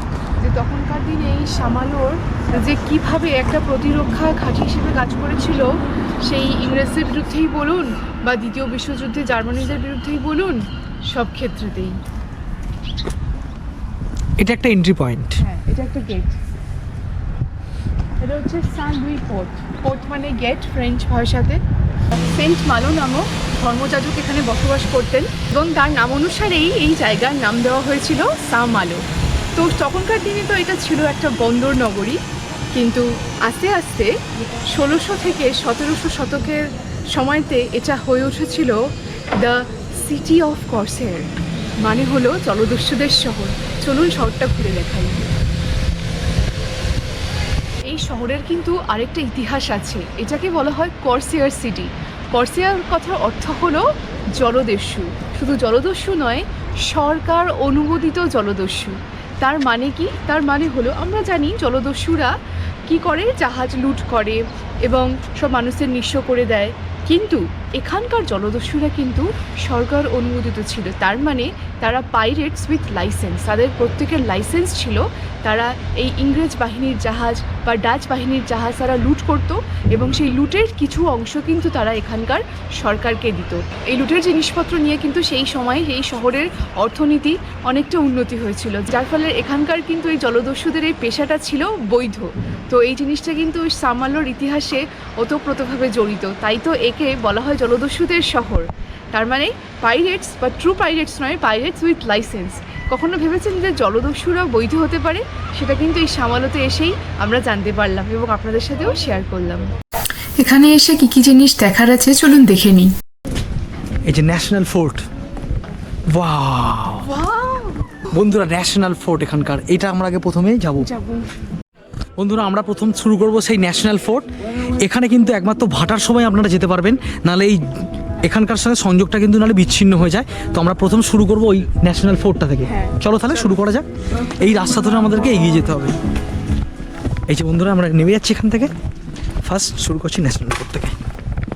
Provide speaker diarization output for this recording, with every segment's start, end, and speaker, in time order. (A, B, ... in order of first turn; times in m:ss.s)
0:00.4-0:12.0 A
0:14.4-0:15.4 B
0:15.4-0:16.4 A
0:18.2-0:21.6 A
0:22.1-0:29.0 A
0:29.6-0:32.2 A
0:32.7-0:34.1 A
0:34.7-0:38.8 A
0:39.4-0:41.3 A
0:41.8-0:45.3 A
0:47.8-1:02.3 A
1:02.9-1:49.7 A
1:50.4-1:52.9 C
1:54.0-1:55.0 B
1:56.1-1:57.1 B
1:57.0-1:57.8 A
1:58.1-2:00.9 B
2:00.8-2:01.3 A
2:02.2-2:13.9 B
2:12.6-2:13.0 A
2:14.4-2:15.9 B
2:17.3-2:18.7 B
2:19.4-2:20.9 B